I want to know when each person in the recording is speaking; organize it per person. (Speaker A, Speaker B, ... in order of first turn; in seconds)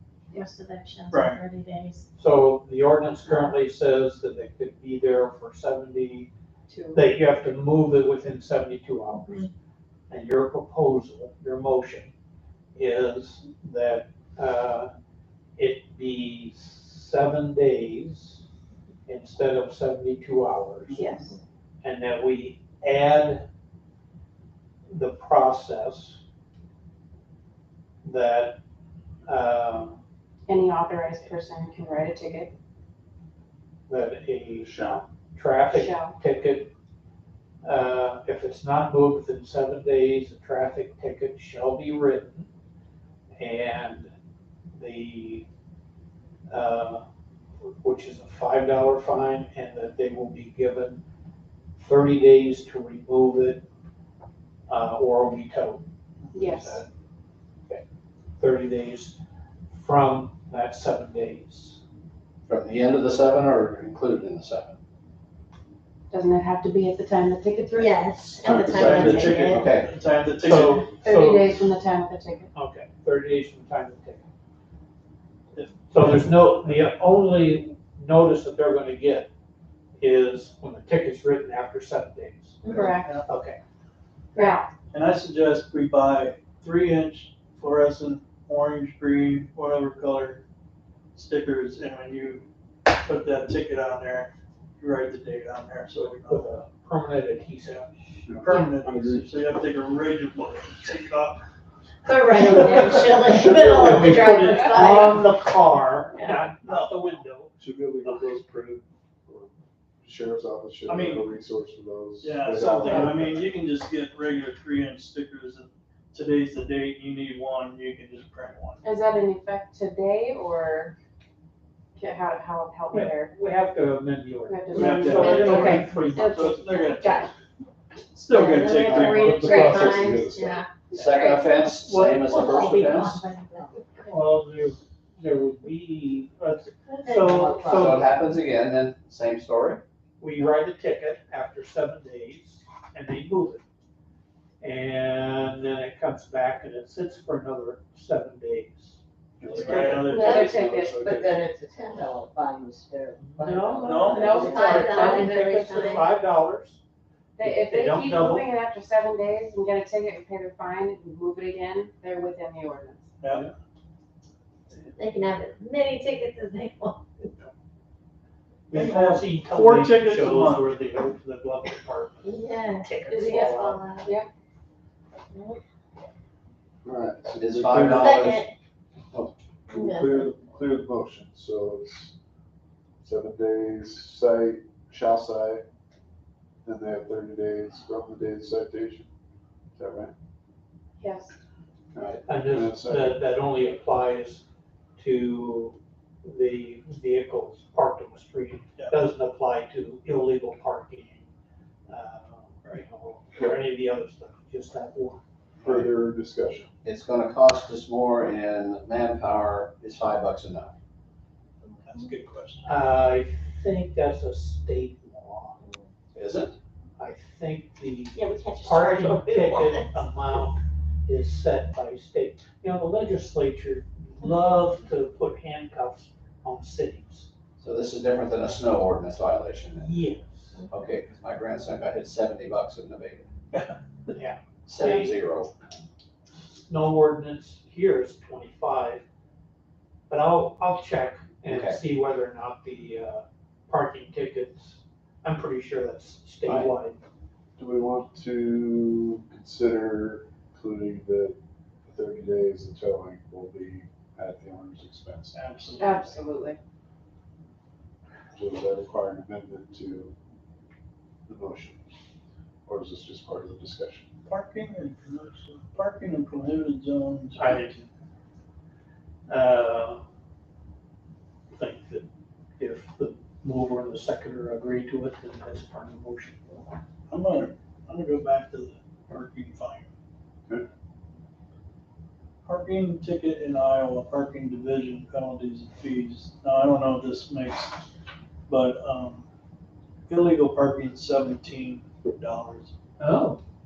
Speaker A: 0.3-2.0, 67.7-69.7, 102.0-105.3, 106.2-106.4, 125.2-125.9, 128.3-130.7, 132.2-134.1, 154.3-156.1, 164.9-167.3, 172.2-174.2, 177.9-178.5, 179.7-180.3, 218.1-219.9
Speaker B: 1.1-1.4, 20.9-21.2, 68.6-71.0, 75.5-76.5, 82.6-83.3, 84.9-90.4, 91.1-96.5, 98.4-101.4, 106.6-107.1, 110.9-111.2, 112.2-118.8, 124.7-127.3, 128.1-129.6, 149.4-151.3, 153.8-154.3, 163.2-163.5, 168.7-170.7, 211.6-212.7, 233.5-234.2, 255.3-256.2, 264.2-267.9, 277.1-279.9, 282.4-287.8, 288.5-289.2, 290.1-292.7
Speaker C: 2.2-6.3, 6.9-9.5, 10.1-12.1, 12.7-14.9, 15.6-18.4, 19.1-21.2, 21.8-23.4, 24.9-26.2, 28.0-28.6, 29.2-30.0, 33.9-36.7, 37.6-42.5, 43.4-44.1, 44.7-45.4, 46.5-47.0, 47.6-51.0, 51.8-53.6, 54.7-56.9, 58.4-59.2, 59.7-61.8, 70.4-71.6, 72.5-74.2, 75.9-79.3, 80.0-82.6, 83.2-83.6, 96.0-98.2, 102.9-108.5, 122.9-126.9, 131.6-133.1, 134.0-138.1, 140.2-143.6, 144.6-150.0, 153.2-156.8, 157.4-158.5, 168.7-173.8, 192.2-194.4, 195.0-201.3, 201.9-205.2, 212.6-215.6, 217.0-227.3, 229.8-230.6, 234.1-235.2, 236.6-239.0, 240.1-247.0, 267.4-267.6, 269.3-270.0, 271.5-276.8, 293.0-293.4
Speaker D: 6.7-7.0, 30.5-32.5, 35.7-36.1, 56.3-56.8, 66.1-68.1, 71.0-72.5, 82.6-83.1, 84.3-84.7, 118.8-120.9, 122.0-123.3, 124.5-125.8, 154.2-155.3, 157.3-163.1, 191.0-191.3, 255.8-256.6
Speaker E: 34.6-35.0, 98.3-99.5, 102.7-104.4, 107.6-109.5, 110.0-113.5, 128.7-130.7, 149.4-151.5, 176.8-178.3, 179.1-182.1, 183.0-185.6, 186.6-189.1, 189.8-190.1, 191.9-193.2, 205.6-206.7, 247.6-255.4, 258.3-260.1, 261.3-261.8, 262.6-264.1
Speaker F: 62.5-64.8, 68.5-69.9, 130.9-133.2, 137.6-139.8, 177.4-178.5, 206.8-210.7, 216.1-216.5, 227.6-229.9, 230.7-233.3, 234.7-235.5, 241.4-241.8, 246.4-246.7
Speaker G: 137.0-138.0, 150.2-154.7